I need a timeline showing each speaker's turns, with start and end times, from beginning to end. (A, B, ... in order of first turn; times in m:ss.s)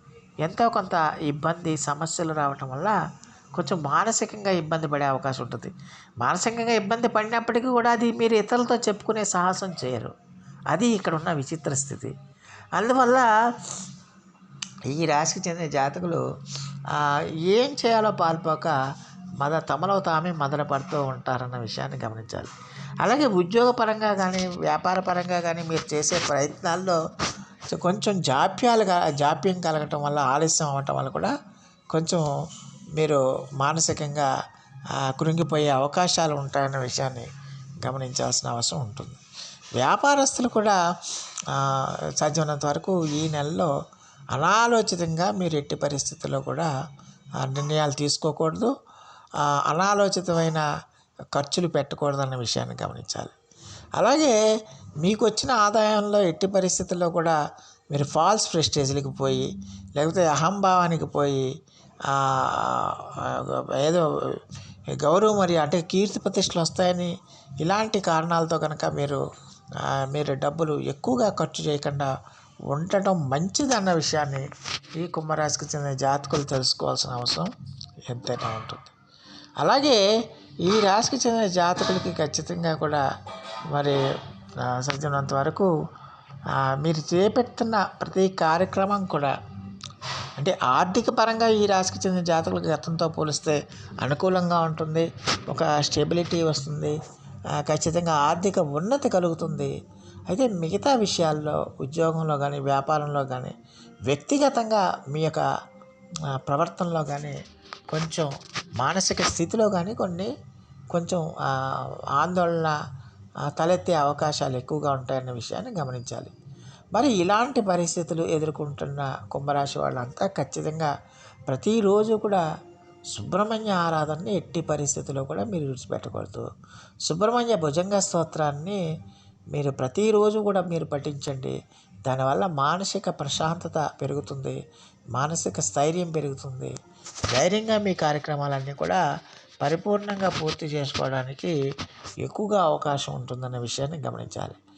0:00.4-0:03.0 A
0:03.6-0:10.1 A
0:10.7-0:12.1 A
0:12.8-0:13.3 A
0:14.8-0:16.2 A
0:16.9-0:18.8 A
0:19.4-0:27.0 A
0:27.7-0:31.3 A
0:31.9-0:32.3 A
0:33.0-0:34.3 A
0:35.0-0:37.3 A
0:37.8-0:39.2 A
0:39.8-0:40.8 A
0:41.5-0:43.7 A
0:44.3-0:46.7 A
0:47.4-0:48.7 A
0:49.5-0:50.7 A
0:51.3-0:53.3 A
0:54.0-0:54.4 A
0:55.0-0:57.4 A
0:57.9-0:59.5 A
1:00.0-1:01.4 A
1:02.1-1:04.0 A
1:05.0-1:09.2 A
1:09.8-1:12.1 A
1:12.7-1:14.5 A
1:15.0-1:17.5 A
1:18.1-1:18.9 A
1:19.6-1:20.0 A
1:20.7-1:23.0 A
1:23.7-1:24.0 A
1:24.6-1:25.7 A
1:26.6-1:29.3 A
1:30.4-1:37.0 A
1:37.6-1:39.7 A
1:40.3-1:43.6 A
1:44.1-1:45.4 A
1:46.4-1:47.4 A
1:47.9-1:48.3 A
1:48.8-1:50.3 A
1:50.9-1:52.8 A
1:53.5-1:56.3 A
1:56.9-2:00.9 A
2:01.5-2:02.4 A
2:03.1-2:06.5 A
2:07.1-2:08.8 A
2:09.5-2:14.6 A
2:15.2-2:16.7 A
2:17.3-2:19.0 A
2:19.6-2:21.6 A
2:22.2-2:24.6 A